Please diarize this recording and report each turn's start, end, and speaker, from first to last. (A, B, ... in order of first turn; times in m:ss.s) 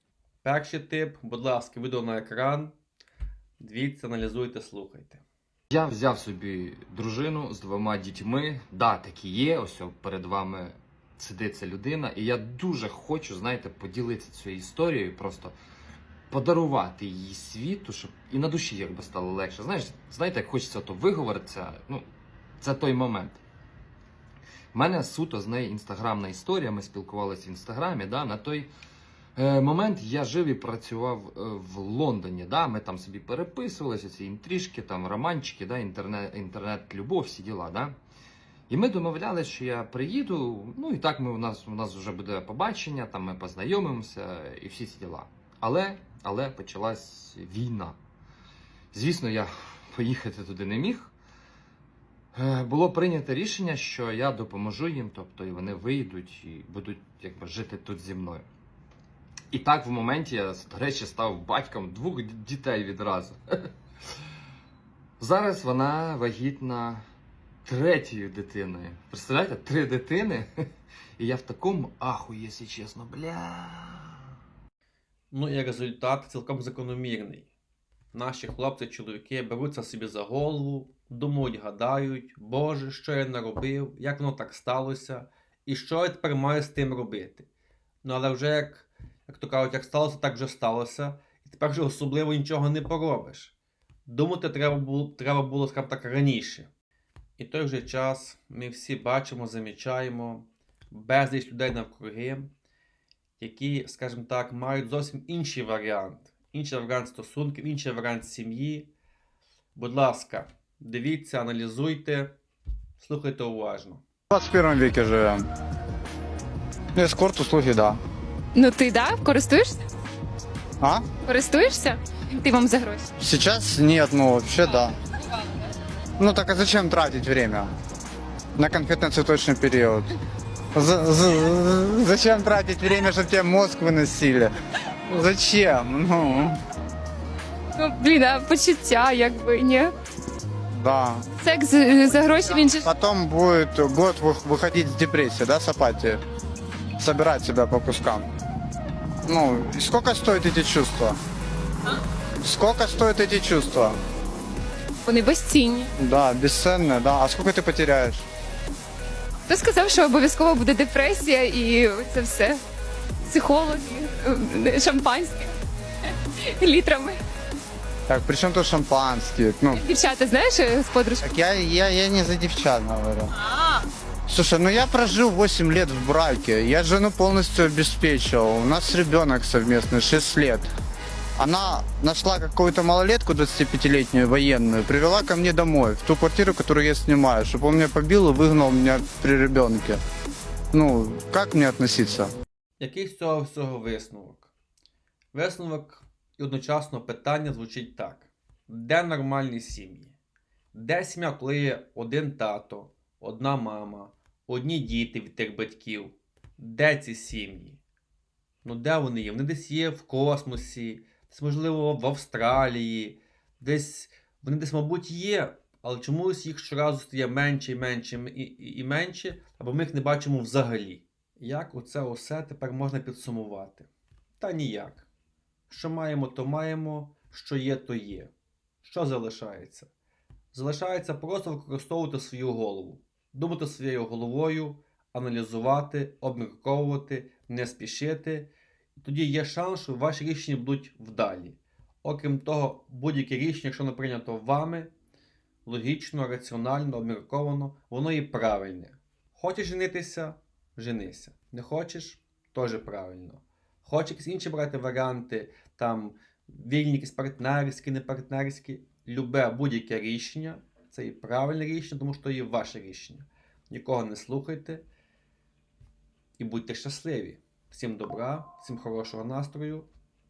0:00.4-0:02.8 A
0:03.6-0:05.2 A
0:05.7-0:15.5 B
0:16.3-0:22.0 B
0:22.6-0:23.4 B
0:24.7-0:28.7 B
0:29.4-0:38.0 B
0:38.7-0:48.0 B
0:48.9-0:51.1 B
0:52.4-0:58.5 B
0:59.5-1:03.7 B
1:05.2-1:07.0 B
1:07.7-1:10.5 B
1:11.2-1:14.2 B
1:15.3-1:17.5 A
1:18.1-1:27.5 A
1:28.0-1:33.6 A
1:34.1-1:36.7 A
1:37.4-1:42.5 A
1:43.4-1:48.9 A
1:49.8-1:52.4 A
1:53.0-1:54.0 A
1:54.3-1:55.5 C
1:57.0-1:58.0 C
1:58.6-1:59.8 D
2:01.2-2:03.1 D
2:03.2-2:05.0 C
2:06.2-2:07.7 C
2:08.6-2:10.1 C
2:10.7-2:14.5 C
2:15.1-2:16.6 C
2:17.8-2:19.9 D
2:20.7-2:21.3 C
2:21.4-2:22.9 D
2:22.8-2:26.2 C
2:27.0-2:28.3 C
2:29.3-2:31.2 C
2:32.4-2:34.0 C
2:35.1-2:35.9 D
2:36.0-2:38.3 C
2:39.5-2:42.6 D
2:43.2-2:45.5 D
2:46.1-2:47.2 D
2:48.1-2:49.8 C
2:49.7-2:51.3 D
2:51.2-2:53.3 C
2:53.5-2:53.8 D
2:54.3-3:00.7 C
3:01.4-3:10.0 C
3:10.7-3:12.3 C
3:12.8-3:14.5 A
3:15.3-3:20.2 A
3:20.7-3:27.8 A
3:28.6-3:43.9 A
3:44.4-3:45.1 A
3:45.7-3:48.3 A
3:48.8-3:49.9 A
3:50.5-3:58.5 A
3:59.0-4:04.9 A
4:05.7-4:24.8 A
4:26.4-4:29.9 A